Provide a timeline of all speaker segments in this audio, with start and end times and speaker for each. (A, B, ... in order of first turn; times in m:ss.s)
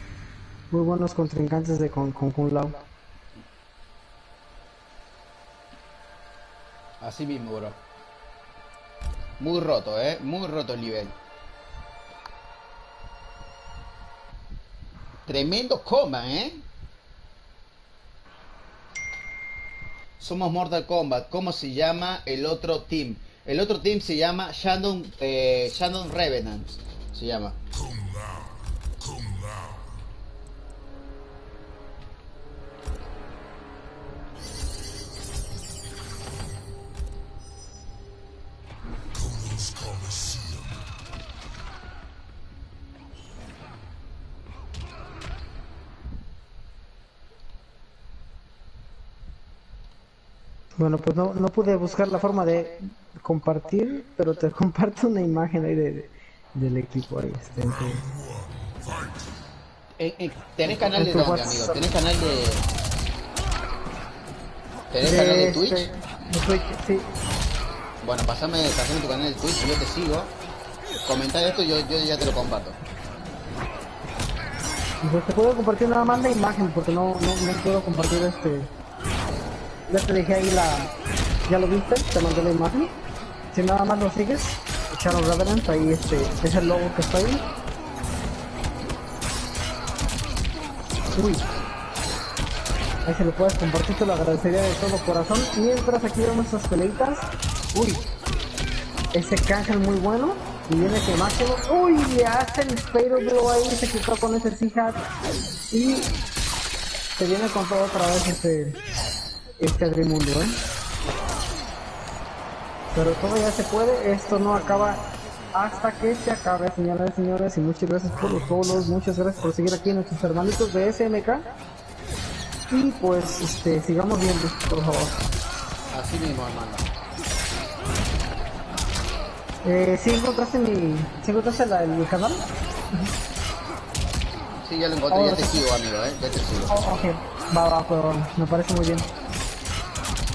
0:00.7-0:02.8 A
0:07.0-0:07.8 B
0:09.4-0:11.2 B
0:15.2-0:16.6 B
0:20.2-0:27.6 B
0:50.8-0:58.1 A
1:00.0-1:02.7 B
1:00.7-1:01.9 A
1:04.9-1:05.9 B
1:05.0-1:07.1 A
1:08.0-1:10.3 B
1:11.0-1:12.8 B
1:15.0-1:18.7 A
1:19.9-1:20.9 A
1:21.5-1:22.9 A
1:23.5-1:27.4 A
1:31.1-1:31.4 A
1:33.0-1:38.0 A
1:39.1-1:45.0 A
1:45.7-1:46.2 A
1:47.2-1:48.8 A
1:49.6-1:50.6 A
1:52.9-2:01.4 A
2:02.7-2:05.2 A
2:05.9-2:06.9 B
2:09.6-2:12.5 A
2:14.6-2:16.7 B
2:15.1-2:15.6 A
2:16.7-2:19.1 A